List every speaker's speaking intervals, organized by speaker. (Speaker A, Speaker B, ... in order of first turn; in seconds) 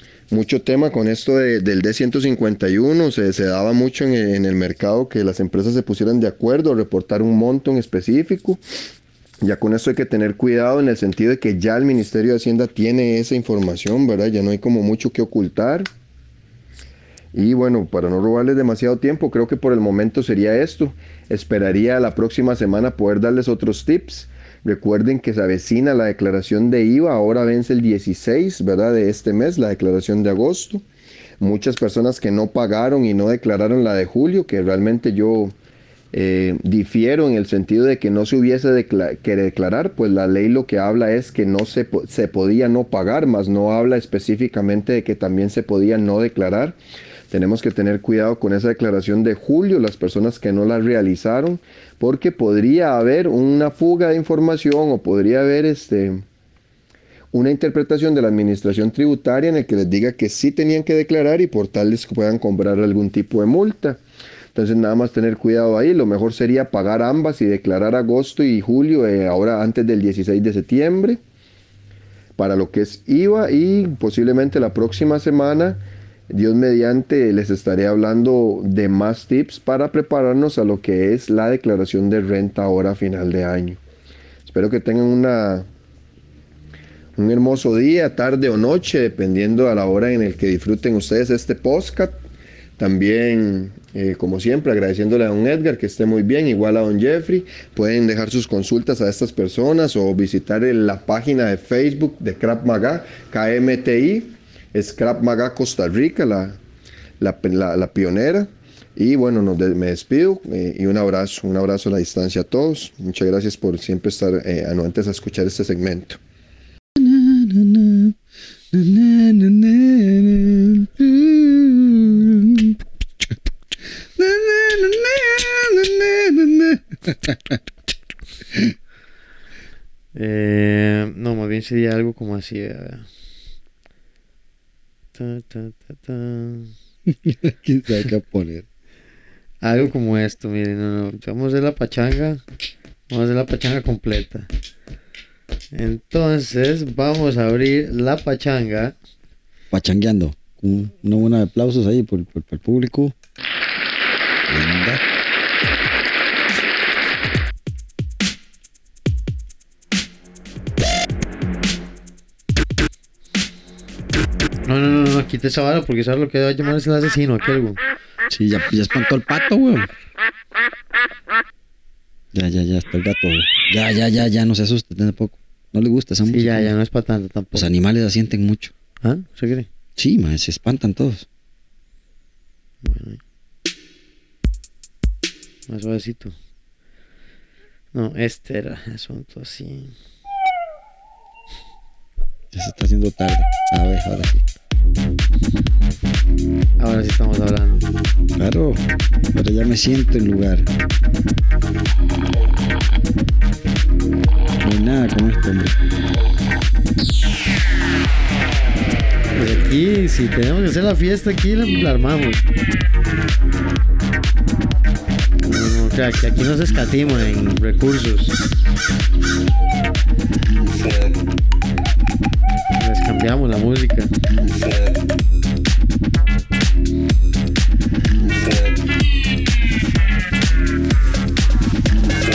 Speaker A: 0.3-8.6, 9.4-15.9, 17.3-30.8, 31.4-35.5, 36.1-46.8, 47.3-56.2, 57.3-64.0, 64.5-71.2, 72.4-83.8, 84.5-85.7, 87.2-92.2, 92.8-106.6, 107.2-116.2
Speaker B: 117.0-118.2, 118.7-122.8, 124.2-127.6, 137.1-138.7, 149.7-153.1, 154.5-155.0, 168.3-169.9, 172.3-176.7, 177.5-178.7, 180.0-181.3, 192.5-194.4, 198.4-198.8, 199.3-200.7, 204.6-205.8
Speaker C: 130.2-133.1, 135.2-136.7, 139.6-142.4, 143.1-144.5, 145.7-148.9, 164.7-167.8, 176.3-177.7, 179.0-179.7, 182.8-183.2, 185.7-186.4, 187.9-189.9, 196.8-197.9, 209.3-212.4, 215.4-218.4, 222.8-224.1